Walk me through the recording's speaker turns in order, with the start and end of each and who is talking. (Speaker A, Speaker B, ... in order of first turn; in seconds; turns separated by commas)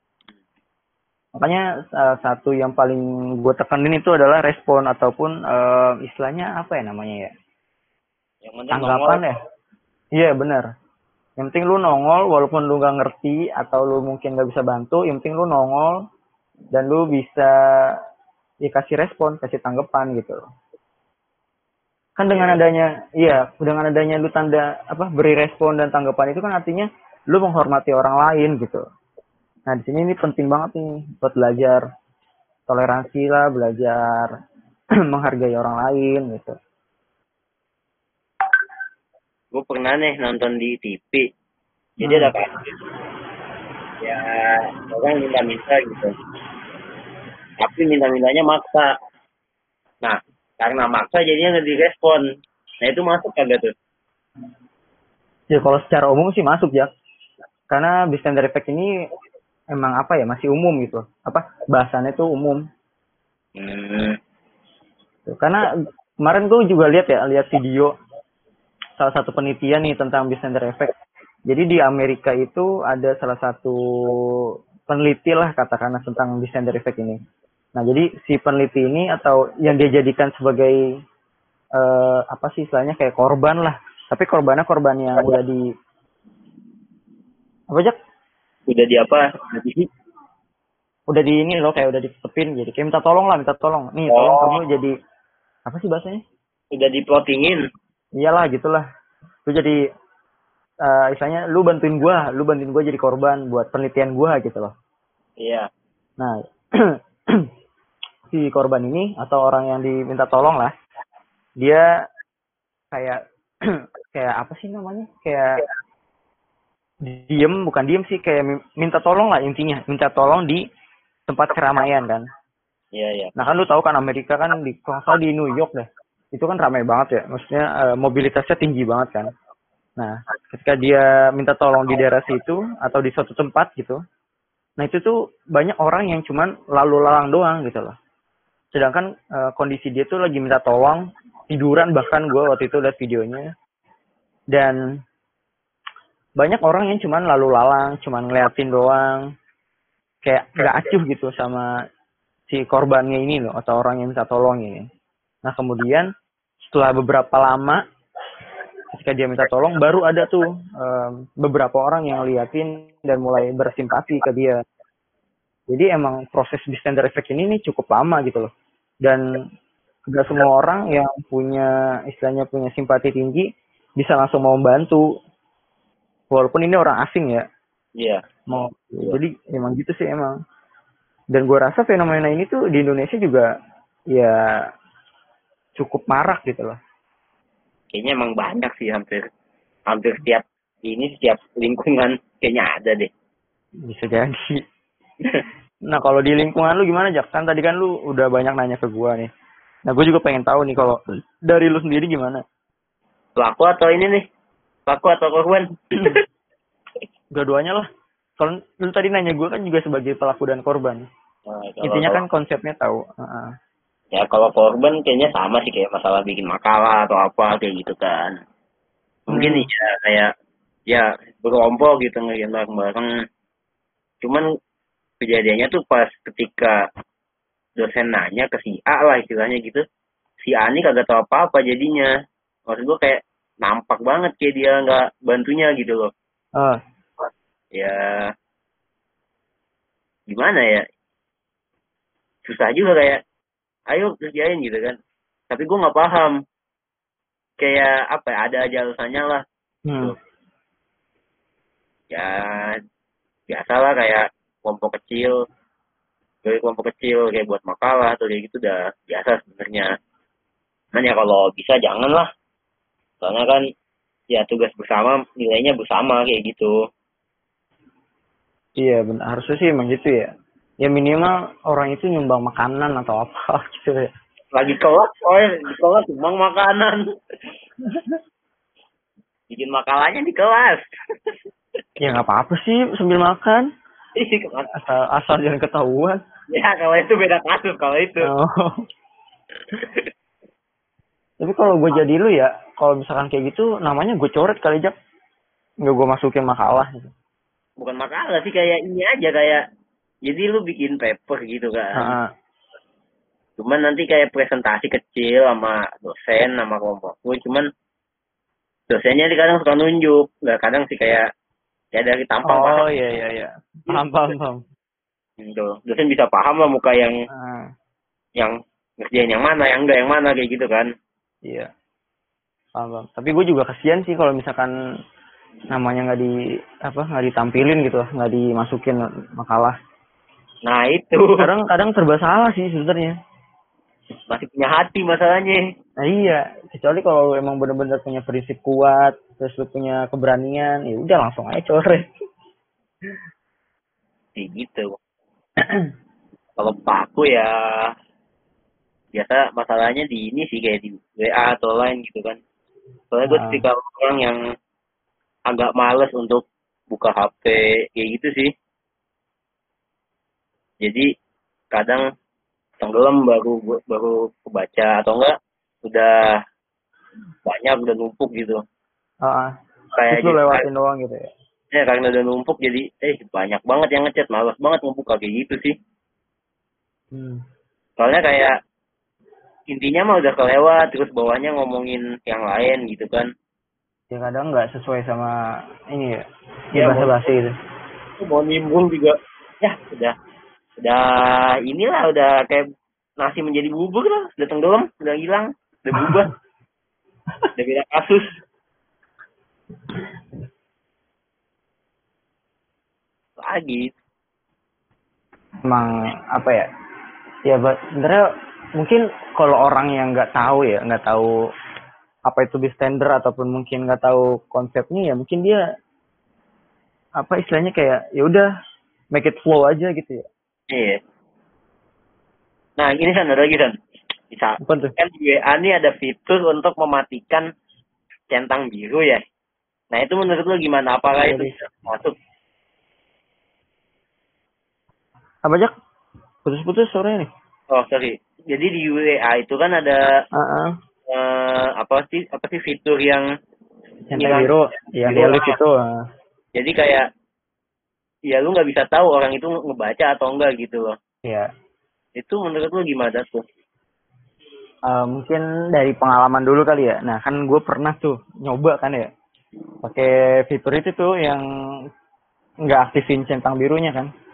Speaker A: 1.4-7.3, Speaker B: 8.4-9.2, Speaker A: 8.7-9.4, Speaker A: 10.1-10.7, Speaker A: 11.4-15.9, Speaker A: 16.7-17.9, Speaker A: 18.6-20.4, Speaker A: 22.2-28.8, Speaker B: 22.3-22.6, Speaker A: 29.7-31.8, Speaker A: 32.7-34.3, Speaker A: 35.1-36.5, Speaker B: 39.5-41.2, Speaker B: 42.0-42.7, Speaker A: 42.0-42.3, Speaker B: 44.0-46.1, Speaker B: 47.6-48.9, Speaker B: 50.0-52.2, Speaker B: 52.8-53.7, Speaker A: 55.5-56.9, Speaker A: 57.7-58.9, Speaker A: 59.7-62.6, Speaker B: 63.6-64.2, Speaker A: 65.3-65.7, Speaker A: 66.2-67.9, Speaker A: 69.0-70.9, Speaker A: 71.5-74.2, Speaker A: 74.9-77.2, Speaker A: 77.8-80.8, Speaker A: 81.8-85.6, Speaker B: 88.7-89.9, Speaker A: 91.1-94.9, Speaker B: 94.1-94.6, Speaker A: 95.7-96.2, Speaker B: 96.7-97.6, Speaker A: 98.2-98.8, Speaker A: 99.5-99.8, Speaker A: 100.8-104.7, Speaker B: 105.4-105.7, Speaker A: 108.3-110.7, Speaker A: 111.6-111.9, Speaker A: 112.9-115.6, Speaker A: 117.0-120.6, Speaker A: 121.3-122.3, Speaker B: 122.9-123.3, Speaker A: 123.3-129.3, Speaker A: 130.0-134.0, Speaker A: 134.8-137.9, Speaker A: 138.7-143.5, Speaker A: 144.5-144.8, Speaker A: 146.4-149.2, Speaker A: 150.2-151.7, Speaker A: 152.5-154.9, Speaker A: 155.4-156.1, Speaker A: 156.6-157.8, Speaker A: 158.9-164.6, Speaker A: 165.7-168.5, Speaker A: 169.0-169.4, Speaker A: 170.1-175.1, Speaker A: 176.3-177.4, Speaker A: 178.5-180.3, Speaker A: 181.3-183.4, Speaker A: 184.1-184.5, Speaker A: 185.8-186.8, Speaker B: 187.9-189.2, Speaker B: 189.9-193.1, Speaker A: 193.8-194.6, Speaker A: 195.9-199.3, Speaker A: 199.9-202.4, Speaker B: 203.4-204.2, Speaker B: 204.9-206.2, Speaker A: 207.3-207.9, Speaker A: 208.4-211.1, Speaker B: 211.5-212.2, Speaker A: 211.8-213.5, Speaker B: 214.1-218.4, Speaker B: 219.3-220.3, Speaker A: 219.3-219.7, Speaker B: 220.9-223.1, Speaker B: 225.2-226.8, Speaker B: 227.8-229.8, Speaker B: 230.4-232.1, Speaker B: 232.7-236.1, Speaker B: 237.7-238.3, Speaker B: 240.3-240.8, Speaker B: 242.4-243.2, Speaker B: 243.9-244.9, Speaker B: 245.5-246.4, Speaker B: 247.6-249.4, Speaker A: 249.9-250.1, Speaker B: 252.1-252.8, Speaker B: 253.5-255.3, Speaker B: 256.4-259.9, Speaker B: 260.9-262.3, Speaker B: 263.2-263.6, Speaker B: 264.3-266.7, Speaker A: 268.8-270.3, Speaker A: 270.8-274.1, Speaker B: 274.5-277.0, Speaker A: 277.9-278.2, Speaker B: 279.5-281.3, Speaker A: 282.0-283.6, Speaker B: 284.2-284.7, Speaker A: 284.7-286.2, Speaker B: 286.5-288.3, Speaker A: 288.2-288.8, Speaker B: 289.7-290.1, Speaker A: 291.4-294.9, Speaker A: 295.8-297.1, Speaker B: 297.8-299.6, Speaker B: 300.2-302.1, Speaker A: 301.9-302.3, Speaker B: 303.6-307.7, Speaker B: 308.9-311.2, Speaker B: 311.9-312.8, Speaker A: 312.5-314.6, Speaker B: 315.4-317.1, Speaker A: 317.3-317.7, Speaker B: 318.4-320.9, Speaker A: 322.8-324.7, Speaker A: 325.7-329.8, Speaker B: 330.6-331.4, Speaker A: 331.4-333.1, Speaker B: 334.3-335.6, Speaker A: 336.0-342.1, Speaker B: 344.4-344.9, Speaker B: 346.6-347.5, Speaker B: 349.1-352.4, Speaker B: 353.1-354.4, Speaker A: 353.2-353.6, Speaker B: 355.5-358.5, Speaker B: 360.8-361.1, Speaker B: 361.7-362.1, Speaker B: 362.8-365.3, Speaker B: 365.9-366.1, Speaker B: 367.4-368.6, Speaker A: 369.2-369.5, Speaker B: 369.9-370.6, Speaker A: 370.1-371.3, Speaker B: 371.7-375.7, Speaker A: 377.1-377.4, Speaker B: 378.0-378.5, Speaker B: 379.7-383.3, Speaker A: 384.1-385.4, Speaker A: 385.9-387.5, Speaker B: 386.8-387.1, Speaker B: 388.2-390.1, Speaker B: 390.8-392.6, Speaker B: 393.2-396.3, Speaker B: 397.6-398.3, Speaker B: 403.4-403.9, Speaker A: 405.7-406.7, Speaker A: 407.4-408.2, Speaker A: 408.8-411.3, Speaker A: 412.3-415.6, Speaker A: 417.2-418.5, Speaker A: 419.1-420.2, Speaker B: 420.7-421.0, Speaker B: 422.8-423.7, Speaker B: 424.3-427.5, Speaker A: 424.6-424.9, Speaker B: 428.3-429.2, Speaker B: 429.9-432.1, Speaker A: 431.2-431.6, Speaker A: 435.4-435.7, Speaker A: 436.4-437.3, Speaker B: 437.7-440.1, Speaker A: 440.3-440.7, Speaker B: 441.1-443.3, Speaker A: 444.1-446.0, Speaker B: 444.2-444.5, Speaker B: 445.1-445.6, Speaker B: 446.6-447.1, Speaker B: 448.3-450.9, Speaker B: 452.2-453.4, Speaker A: 454.9-459.1, Speaker A: 459.8-461.4, Speaker A: 462.6-464.1